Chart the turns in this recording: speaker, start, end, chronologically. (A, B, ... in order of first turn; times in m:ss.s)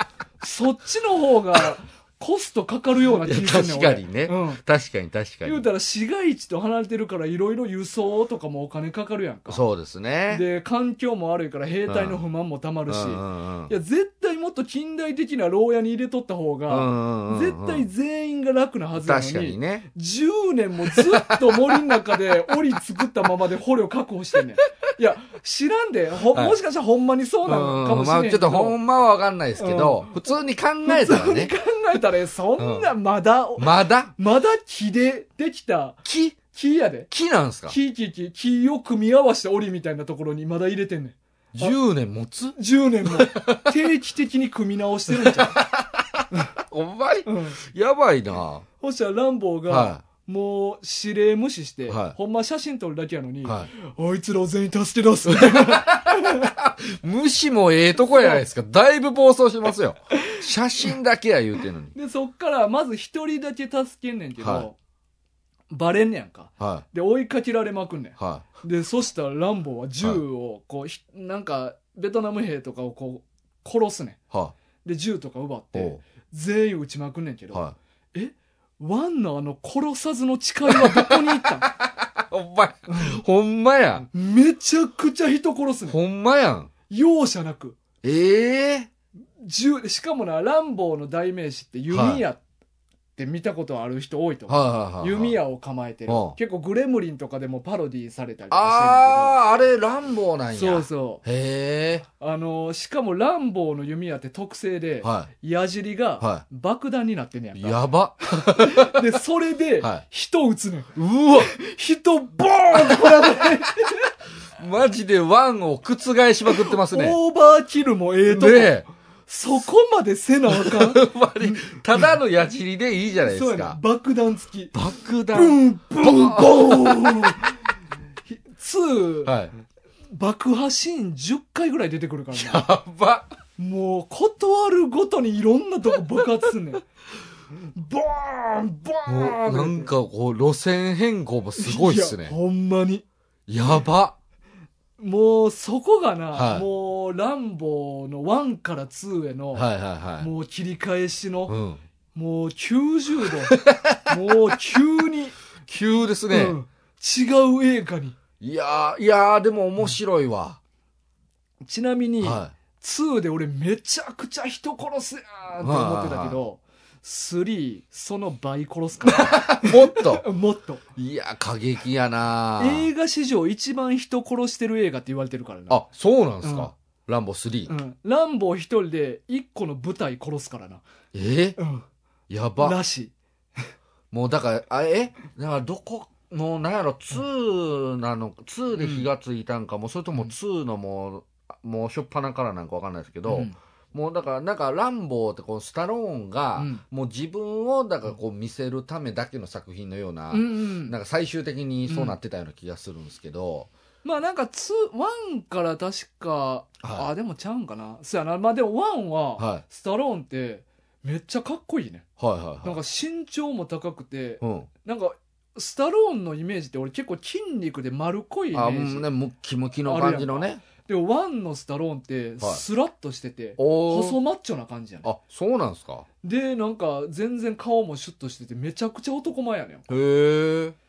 0:00.4-0:04.6 A
0:03.2-0:05.6 B
0:05.4-0:09.6 A
0:09.5-0:10.4 B
0:10.3-0:28.8 A
0:11.9-0:12.2 B
0:12.9-0:13.7 B
0:16.7-0:17.9 B
0:19.0-0:19.9 B
0:20.9-0:21.9 B
0:26.3-0:26.6 B
0:27.5-0:31.5 B
0:29.6-0:30.1 A
0:30.8-0:37.1 A
0:32.6-0:32.9 B
0:33.6-0:34.1 B
0:36.1-0:36.4 B
0:37.1-0:37.8 B
0:37.7-0:41.8 A
0:41.6-0:43.7 B
0:42.6-0:45.6 A
0:45.1-0:48.7 B
0:47.3-0:47.6 A
0:48.8-0:56.5 A
0:49.7-0:50.0 B
0:51.9-0:52.2 B
0:53.4-0:53.7 B
0:55.3-1:01.9 B
0:58.1-0:58.4 A
1:01.9-1:04.8 A
1:04.4-1:04.7 B
1:05.7-1:14.2 A
1:06.6-1:06.8 B
1:08.2-1:08.5 B
1:14.8-1:21.7 A
1:15.7-1:16.0 B
1:20.7-1:24.1 B
1:22.9-1:23.2 A
1:24.1-1:26.0 A
1:25.9-1:26.7 B
1:26.9-1:27.8 A
1:28.0-1:28.9 B
1:29.4-1:32.4 A
1:31.9-1:32.2 B
1:33.2-1:39.4 A
1:34.5-1:35.4 B
1:36.1-1:36.4 B
1:38.5-1:42.1 B
1:40.5-1:41.2 A
1:42.2-1:47.8 A
1:45.0-1:45.3 B
1:47.6-1:49.0 B
1:48.4-1:54.1 A
1:51.0-1:51.5 B
1:52.7-1:53.5 B
1:54.6-1:57.2 B
1:56.5-2:02.1 A
1:58.3-1:58.9 B
2:00.5-2:03.8 B
2:03.2-2:04.8 A
2:04.7-2:07.4 B
2:05.3-2:07.6 A
2:08.3-2:09.3 A
2:09.2-2:09.5 B
2:10.1-2:12.7 A
2:12.3-2:13.3 B
2:13.6-2:16.8 A
2:17.8-2:19.9 A
2:19.1-2:22.4 B
2:21.6-2:23.0 A
2:23.5-2:24.2 B
2:25.0-2:29.7 A
2:26.3-2:26.7 B
2:29.5-2:30.3 B
2:30.2-2:31.6 A
2:31.5-2:31.8 B
2:32.1-2:35.4 A
2:33.5-2:34.2 B
2:35.7-2:36.6 B
2:36.3-2:38.2 A
2:38.4-2:40.6 B
2:41.6-2:50.8 A
2:42.2-2:42.6 B
2:45.6-2:46.4 B
2:49.1-2:50.2 B
2:51.0-2:52.9 B
2:52.6-2:55.8 A
2:55.7-2:57.7 B
2:56.4-2:56.7 A
2:57.7-3:00.8 A
3:01.1-3:01.6 B
3:01.6-3:01.8 A
3:02.3-3:02.8 B
3:02.6-3:03.1 A
3:04.1-3:23.7 B
3:08.8-3:09.1 A
3:13.3-3:13.6 A
3:16.6-3:16.8 A
3:20.3-3:21.0 A
3:21.9-3:22.2 A
3:24.0-3:32.1 A
3:26.8-3:27.1 B
3:29.4-3:29.6 B
3:32.2-3:32.8 B
3:32.6-3:39.1 A
3:34.4-3:34.7 B
3:38.5-3:40.6 B
3:39.8-3:45.1 A
3:43.6-3:44.2 B
3:45.0-3:46.1 B
3:46.2-3:49.9 A
3:49.9-3:50.8 B